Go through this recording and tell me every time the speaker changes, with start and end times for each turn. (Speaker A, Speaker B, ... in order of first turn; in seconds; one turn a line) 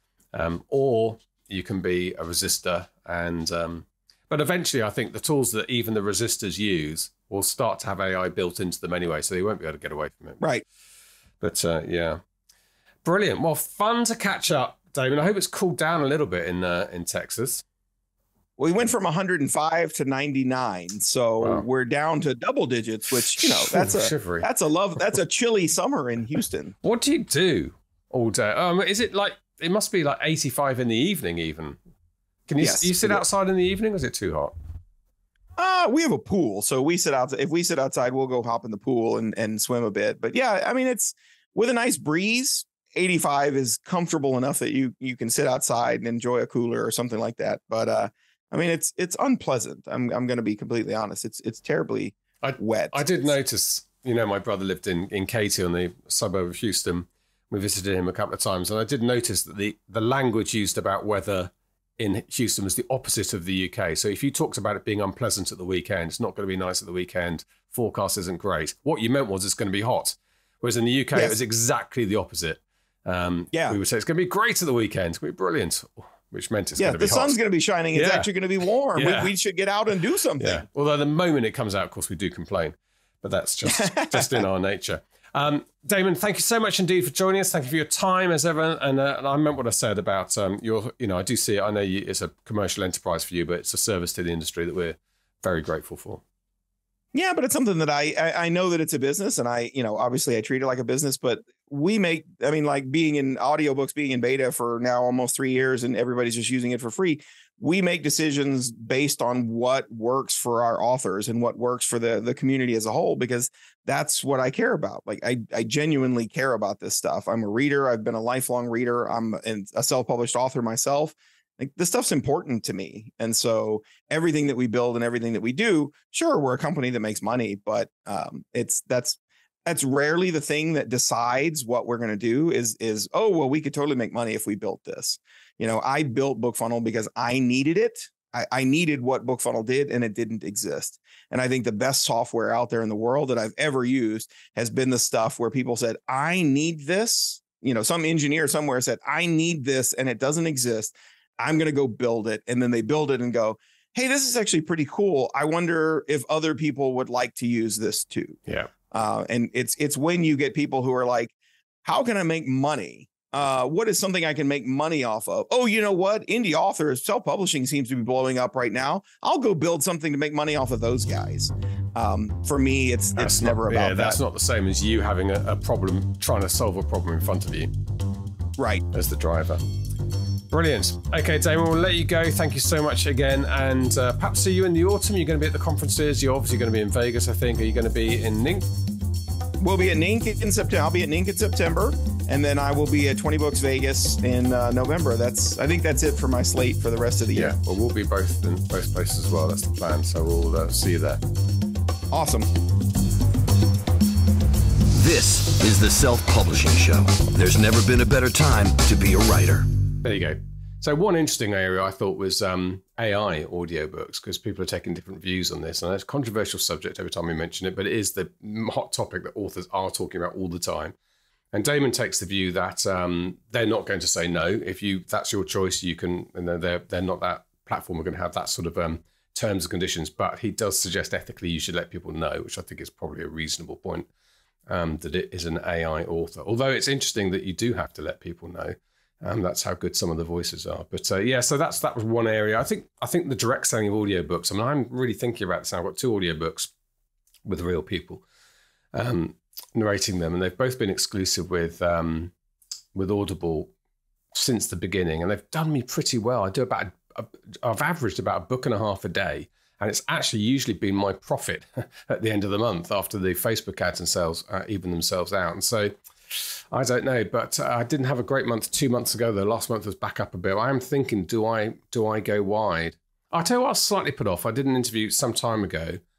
Speaker A: 0.3-10.4
Speaker A: 11.4-12.2
Speaker A: 13.0-17.6
Speaker B: 18.6-26.7
Speaker A: 21.4-21.7
Speaker A: 23.4-24.5
Speaker A: 26.8-31.8
Speaker A: 32.5-34.5
Speaker B: 32.6-33.2
Speaker B: 35.6-53.3
Speaker A: 52.4-77.3
Speaker B: 73.5-73.8
Speaker B: 76.8-80.6
Speaker A: 77.9-78.3
Speaker A: 79.0-79.3
Speaker A: 80.4-96.2
Speaker B: 83.7-84.4
Speaker B: 97.1-158.4
Speaker B: 158.9-161.3
Speaker B: 161.8-174.2
Speaker A: 173.2-177.7
Speaker B: 178.6-178.8
Speaker A: 178.9-179.6
Speaker A: 180.5-188.7
Speaker B: 189.6-197.6
Speaker A: 197.3-201.2
Speaker B: 202.1-202.5
Speaker C: 204.9-209.7
Speaker A: 210.0-220.9
Speaker A: 221.5-234.1
Speaker A: 234.7-246.7
Speaker A: 247.4-248.2
Speaker A: 248.9-252.3
Speaker A: 252.9-253.7
Speaker A: 254.3-276.0